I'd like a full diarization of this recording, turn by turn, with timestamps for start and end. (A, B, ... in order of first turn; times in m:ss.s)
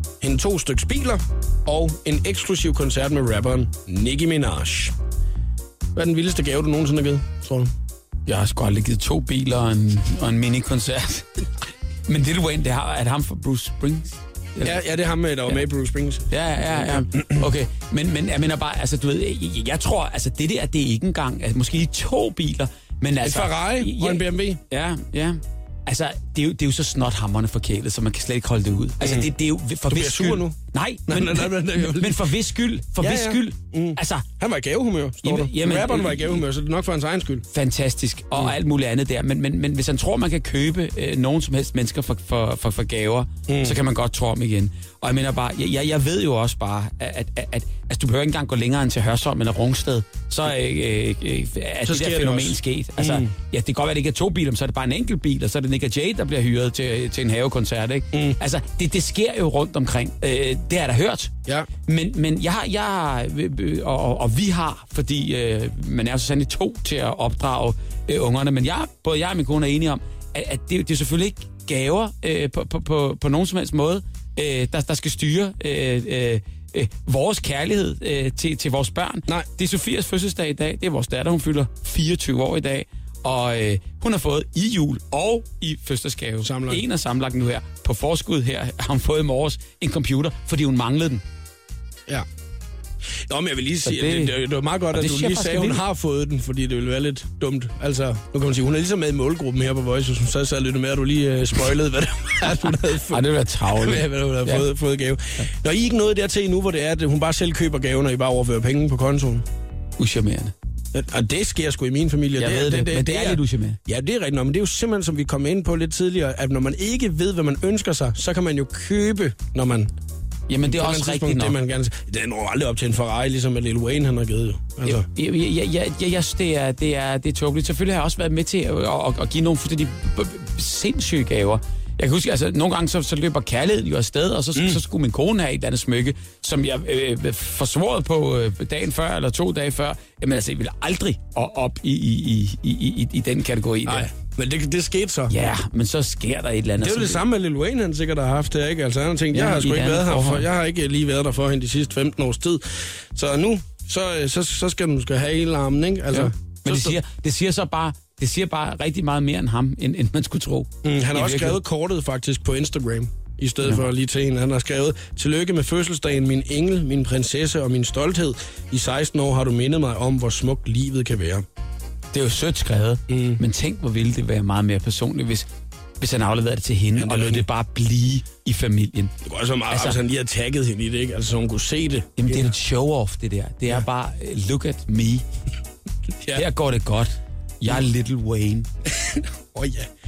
0:00.2-0:05.0 A
0:06.0-0:07.7 A
0:08.3-0:11.5 B
0:12.1-0:14.8 B
0:14.6-0:17.5 A
0:16.3-0:34.2 B
0:23.2-0:24.6 A
0:29.0-0:29.3 A
0:29.9-0:32.3 A
0:33.0-0:37.5 A
0:35.2-0:36.4 B
0:37.5-1:01.3 B
0:43.5-0:43.8 A
0:51.9-0:53.3 A
0:58.1-0:58.4 A
1:01.9-1:31.2 B
1:26.4-1:26.8 A
1:33.3-1:49.5 A
1:33.8-1:34.4 B
1:34.9-1:35.8 B
1:42.7-1:44.7 B
1:50.0-1:50.5 B
1:50.9-1:59.9 A
1:52.4-1:53.8 B
2:00.5-2:01.6 B
2:00.6-2:05.1 A
2:04.8-2:24.1 B
2:14.6-2:14.8 A
2:23.9-2:25.4 A
2:25.3-2:27.2 B
2:26.8-2:37.0 A
2:29.3-2:30.5 B
2:36.1-2:41.6 B
2:40.8-2:51.4 A
2:52.1-2:55.5 B
2:53.1-2:53.4 A
2:56.0-2:59.1 B
2:57.0-2:57.4 A
2:59.2-3:02.5 A
2:59.7-3:00.0 B
3:02.2-3:05.2 B
3:06.4-3:08.7 B
3:08.9-3:09.9 A